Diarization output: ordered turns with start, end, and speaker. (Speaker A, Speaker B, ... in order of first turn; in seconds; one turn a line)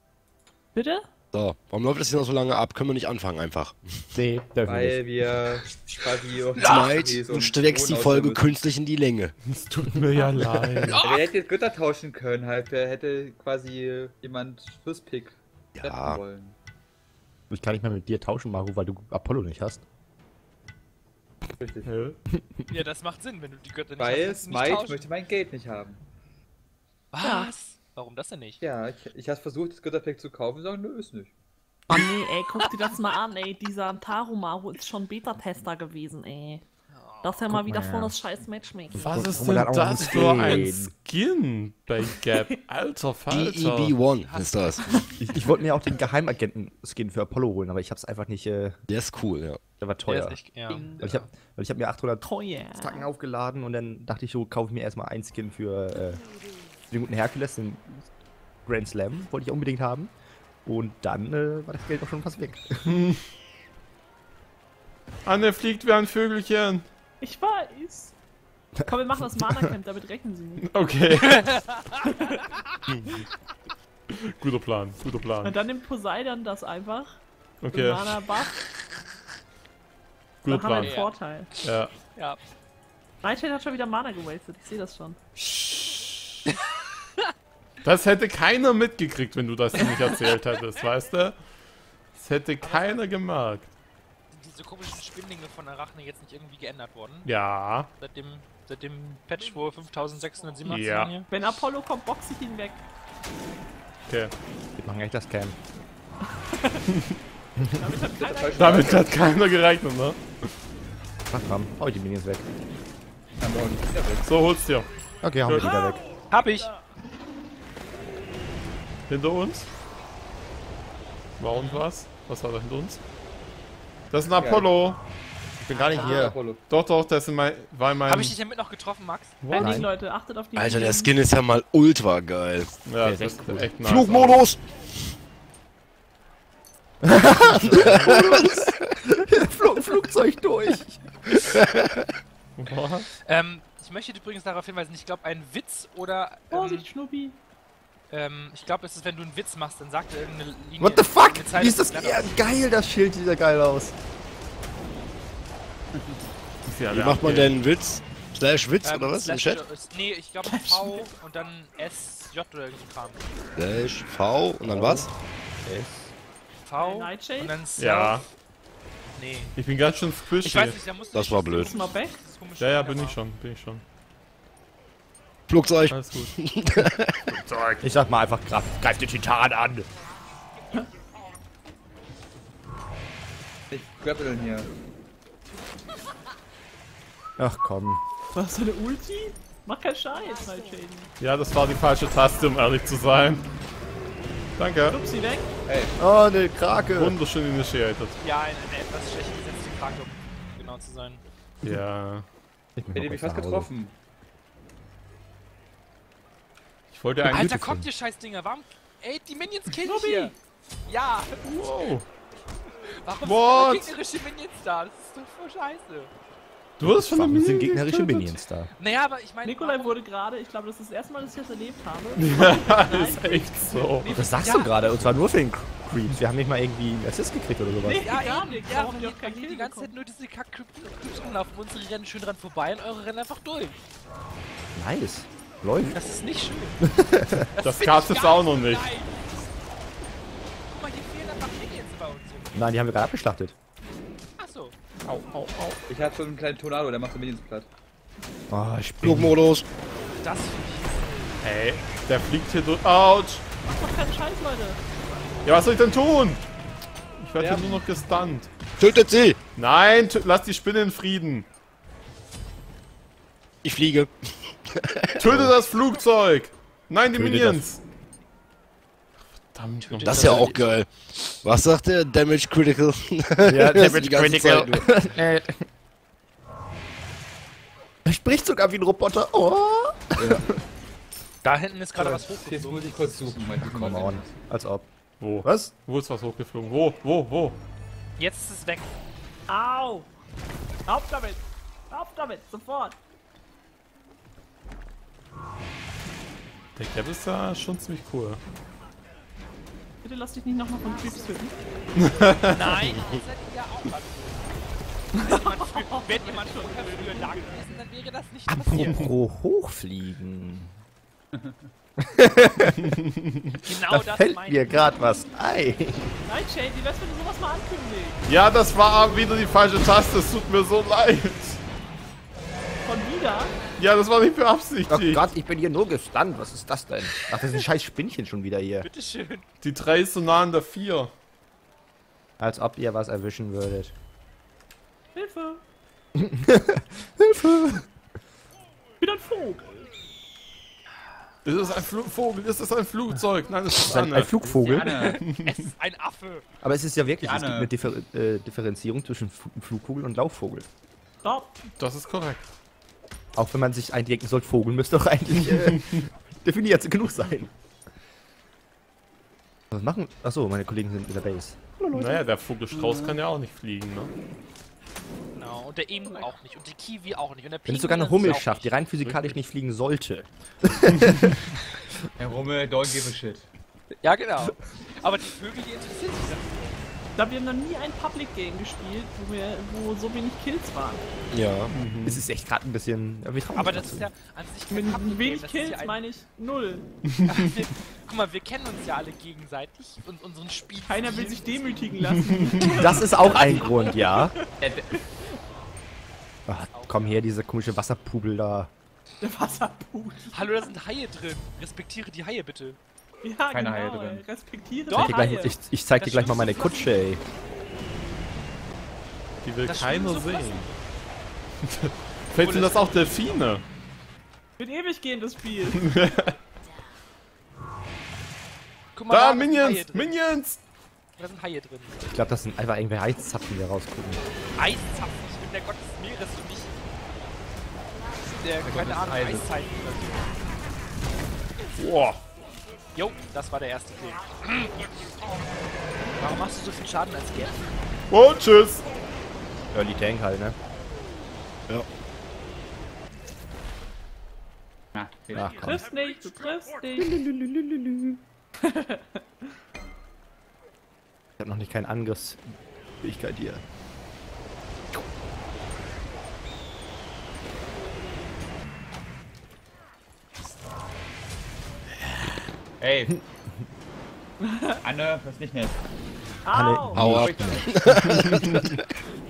Speaker A: 0.7-1.1
Speaker B: 1.3-4.1
Speaker C: 4.1-5.0
Speaker D: 4.7-8.5
Speaker E: 6.6-7.0
Speaker B: 6.6-9.3
Speaker F: 9.4-11.0
Speaker C: 10.4-10.9
Speaker E: 10.9-11.3
Speaker D: 11.0-16.5
Speaker B: 15.8-16.2
Speaker C: 17.5-19.8
Speaker D: 21.6-21.9
Speaker F: 21.8-22.2
Speaker E: 22.7-25.0
Speaker D: 24.0-26.0
Speaker E: 27.1-28.6
Speaker A: 27.2-27.5
Speaker D: 28.6-31.3
Speaker A: 31.9-36.6
Speaker E: 36.9-37.4
Speaker A: 37.2-39.6
Speaker C: 37.5-38.2
Speaker F: 38.9-44.0
Speaker C: 39.0-40.9
Speaker B: 43.3-44.8
Speaker E: 44.2-45.0
Speaker C: 45.2-48.8
Speaker B: 48.9-49.6
Speaker C: 49.8-50.4
Speaker E: 50.1-50.9
Speaker A: 50.7-51.0
Speaker C: 51.0-56.2
Speaker A: 52.2-53.1
Speaker C: 56.9-58.0
Speaker C: 58.6-60.1
Speaker C: 60.6-62.9
Speaker F: 62.8-63.2
Speaker F: 65.2-66.8
Speaker A: 67.2-68.1
Speaker A: 68.8-70.7
Speaker F: 70.6-71.6
Speaker E: 71.3-72.1
Speaker F: 74.1-75.6
Speaker A: 75.4-77.2
Speaker F: 77.6-78.2
Speaker A: 77.7-78.6
Speaker F: 80.4-81.0
Speaker A: 80.5-81.5
Speaker E: 80.8-82.4
Speaker F: 81.6-81.9
Speaker A: 83.2-85.2
Speaker F: 85.4-86.0
Speaker F: 87.8-91.4
Speaker F: 92.1-93.7
Speaker E: 92.6-93.1
Speaker E: 94.3-97.3
Speaker F: 97.2-97.9
Speaker E: 98.0-101.3
Speaker F: 100.7-101.1
Speaker A: 101.3-102.8
Speaker F: 104.1-104.3
Speaker C: 104.8-105.5
Speaker A: 106.3-106.8
Speaker C: 107.6-107.9
Speaker A: 107.7-109.0
Speaker D: 108.1-109.1
Speaker F: 108.6-110.5
Speaker C: 111.3-112.5
Speaker D: 113.4-114.3
Speaker F: 114.2-114.9
Speaker C: 115.2-116.0
Speaker F: 115.4-115.8
Speaker E: 116.3-116.7
Speaker F: 119.1-119.7
Speaker F: 121.4-123.0
Speaker E: 121.5-121.8
Speaker F: 124.1-125.0
Speaker D: 124.4-124.7
Speaker C: 125.6-126.4
Speaker D: 125.7-126.6
Speaker F: 126.7-128.3
Speaker E: 128.1-129.4
Speaker F: 129.4-129.9
Speaker A: 129.5-131.1
Speaker C: 129.5-129.9
Speaker B: 130.6-132.8
Speaker F: 132.8-134.4
Speaker C: 133.0-133.7
Speaker B: 133.8-134.7
Speaker C: 137.0-141.0
Speaker B: 137.6-138.7
Speaker B: 141.4-142.1
Speaker F: 142.6-143.1
Speaker E: 143.2-146.8
Speaker A: 146.5-147.3
Speaker E: 148.1-152.4
Speaker C: 150.8-153.9
Speaker F: 156.6-157.6
Speaker B: 156.9-159.6
Speaker E: 158.8-163.3
Speaker A: 160.5-161.0
Speaker B: 163.6-165.1
Speaker C: 164.6-165.1
Speaker C: 165.6-166.1
Speaker E: 166.6-168.2
Speaker A: 166.8-167.6
Speaker F: 167.8-168.2
Speaker E: 169.2-169.5
Speaker F: 169.6-170.8
Speaker E: 170.4-173.2
Speaker B: 171.1-171.8
Speaker A: 171.5-172.2
Speaker F: 172.6-173.8
Speaker B: 175.5-177.3
Speaker F: 175.8-176.3
Speaker F: 177.3-177.8
Speaker C: 177.8-179.9
Speaker D: 183.7-184.7
Speaker C: 187.4-188.0
Speaker A: 188.3-191.1
Speaker F: 191.2-193.5
Speaker F: 194.6-195.0
Speaker A: 194.9-195.5
Speaker D: 195.7-195.9
Speaker C: 196.0-197.2
Speaker F: 196.9-198.2
Speaker E: 198.2-201.2
Speaker F: 201.6-202.2
Speaker C: 202.8-203.7
Speaker D: 202.9-203.9
Speaker F: 206.9-207.6
Speaker E: 207.2-210.3
Speaker C: 207.3-207.8
Speaker A: 209.7-210.3
Speaker E: 210.8-211.4
Speaker F: 211.4-212.1
Speaker E: 212.8-216.1
Speaker F: 213.2-213.9
Speaker F: 216.8-218.3
Speaker C: 216.8-218.7
Speaker E: 218.8-220.0
Speaker A: 219.4-224.4
Speaker F: 222.1-224.2
Speaker C: 224.0-228.1
Speaker E: 224.3-224.7
Speaker A: 227.8-229.9
Speaker E: 228.0-233.8
Speaker C: 234.7-236.0
Speaker E: 235.9-236.8
Speaker C: 236.8-237.5
Speaker E: 237.4-239.3
Speaker F: 237.6-238.8
Speaker E: 240.7-242.8
Speaker C: 242.5-243.5
Speaker E: 244.4-244.7
Speaker F: 245.0-245.8
Speaker D: 245.9-247.7
Speaker C: 248.5-249.3
Speaker B: 249.0-249.6
Speaker E: 250.2-251.0
Speaker F: 251.4-253.4
Speaker A: 253.7-254.8
Speaker F: 255.4-256.4
Speaker F: 257.2-258.5
Speaker D: 257.4-257.8
Speaker B: 258.8-259.4
Speaker F: 259.6-261.5
Speaker B: 263.6-265.5
Speaker F: 265.2-267.8
Speaker C: 267.1-267.6
Speaker F: 269.5-270.5
Speaker E: 269.8-270.6
Speaker B: 270.0-274.9
Speaker C: 273.4-275.6
Speaker C: 278.0-280.6
Speaker D: 280.2-280.5
Speaker E: 281.4-283.3
Speaker D: 282.0-284.3
Speaker C: 283.5-284.9
Speaker F: 285.2-287.6
Speaker C: 285.4-285.7
Speaker E: 288.2-288.9
Speaker A: 289.5-290.1
Speaker A: 290.9-293.0
Speaker F: 296.8-298.4
Speaker A: 300.0-301.6
Speaker F: 301.9-302.8
Speaker E: 302.5-304.5
Speaker A: 305.1-307.8
Speaker E: 305.1-309.1
Speaker C: 308.5-310.7
Speaker C: 312.0-312.9
Speaker F: 312.8-313.5
Speaker E: 313.6-314.9
Speaker C: 313.7-316.2
Speaker A: 316.2-318.2
Speaker F: 318.2-321.6
Speaker A: 322.8-323.6
Speaker F: 323.8-325.2
Speaker C: 324.9-328.9
Speaker E: 328.8-329.4
Speaker F: 329.6-331.1
Speaker C: 332.4-333.9
Speaker A: 335.1-335.6
Speaker C: 336.1-337.8
Speaker A: 339.0-339.9
Speaker F: 341.4-344.4
Speaker C: 343.7-344.9
Speaker D: 344.4-345.2
Speaker E: 344.8-346.4
Speaker F: 345.2-345.7
Speaker C: 346.6-350.7
Speaker D: 347.2-347.7
Speaker A: 351.2-351.5
Speaker F: 351.7-352.5
Speaker C: 353.3-357.5
Speaker C: 359.7-361.8
Speaker A: 361.8-362.2
Speaker F: 361.9-364.1
Speaker D: 362.7-363.2
Speaker E: 365.4-368.8
Speaker C: 367.7-371.5
Speaker D: 372.2-373.5
Speaker E: 374.0-376.8
Speaker A: 377.1-381.0
Speaker B: 381.3-381.7
Speaker F: 381.7-382.2
Speaker C: 382.0-384.1
Speaker E: 383.5-386.0
Speaker A: 384.7-386.9
Speaker E: 387.2-391.7
Speaker A: 390.9-395.0
Speaker F: 392.2-392.6
Speaker C: 392.6-394.3
Speaker E: 393.0-394.0
Speaker D: 394.6-394.9
Speaker C: 396.5-398.7
Speaker E: 396.7-397.3
Speaker A: 399.2-400.6
Speaker E: 400.3-402.8
Speaker A: 403.2-405.5
Speaker D: 403.5-404.2
Speaker E: 404.9-407.1
Speaker C: 404.9-407.2
Speaker F: 409.4-410.7
Speaker E: 409.6-410.8
Speaker F: 411.6-413.6
Speaker E: 412.4-413.2
Speaker A: 414.6-415.9
Speaker F: 415.7-416.4
Speaker E: 418.9-420.2
Speaker F: 419.1-420.6
Speaker E: 421.2-422.1
Speaker C: 422.0-424.2
Speaker E: 424.6-426.7
Speaker E: 428.2-430.3
Speaker D: 428.6-429.5
Speaker F: 431.8-432.2
Speaker E: 432.9-434.7
Speaker E: 436.2-437.7
Speaker F: 438.1-438.8
Speaker C: 439.7-440.6
Speaker D: 444.9-445.7
Speaker C: 445.3-445.8
Speaker A: 445.6-447.2
Speaker C: 447.1-448.1
Speaker A: 448.6-449.2
Speaker C: 451.4-453.6
Speaker D: 462.8-463.2
Speaker A: 464.4-464.8
Speaker D: 464.8-465.8
Speaker A: 466.4-467.1
Speaker C: 466.5-468.6
Speaker B: 466.9-468.8
Speaker D: 467.0-467.8